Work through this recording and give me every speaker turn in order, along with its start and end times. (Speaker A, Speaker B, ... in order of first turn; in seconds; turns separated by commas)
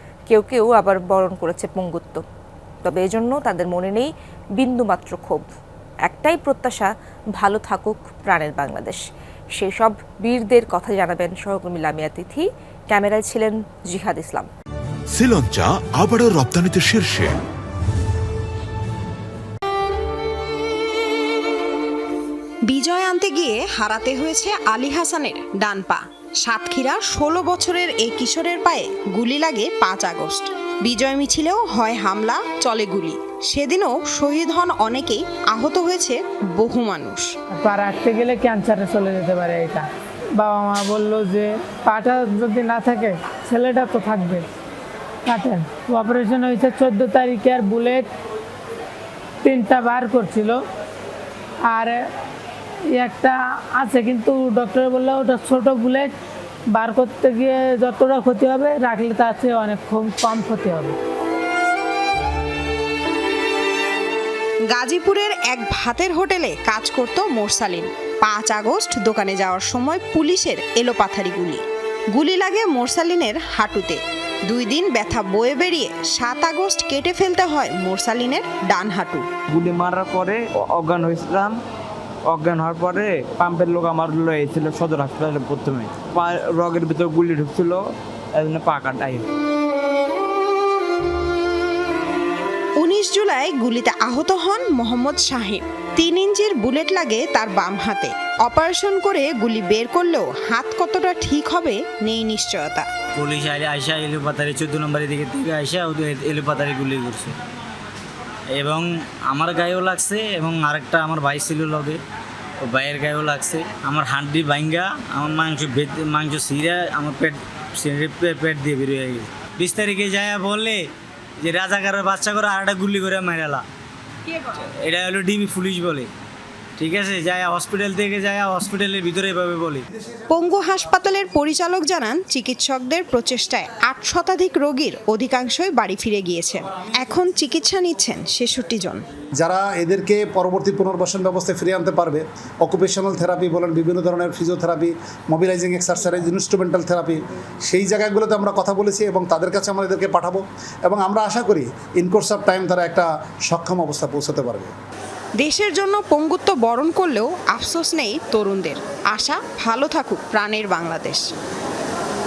Speaker A: 0.3-2.2, Speaker A: 2.8-5.4, Speaker A: 6.0-9.0, Speaker A: 9.6-14.5, Speaker B: 15.1-17.4, Speaker C: 22.6-37.3, Speaker D: 37.5-39.9, Speaker D: 40.4-44.4, Speaker D: 45.2-48.1, Speaker D: 49.4-50.6, Speaker D: 51.7-52.0, Speaker D: 52.9-56.1, Speaker D: 56.7-61.0, Speaker C: 64.7-79.2, Speaker E: 79.5-81.5, Speaker E: 82.2-87.8, Speaker E: 88.3-89.2, Speaker C: 92.8-102.9, Speaker F: 103.1-107.3, Speaker F: 108.5-112.0, Speaker F: 112.6-120.8, Speaker F: 121.4-123.6, Speaker F: 124.8-126.1, Speaker F: 126.8-129.8, Speaker C: 130.3-139.0, Speaker G: 139.4-154.7, Speaker C: 155.4-161.3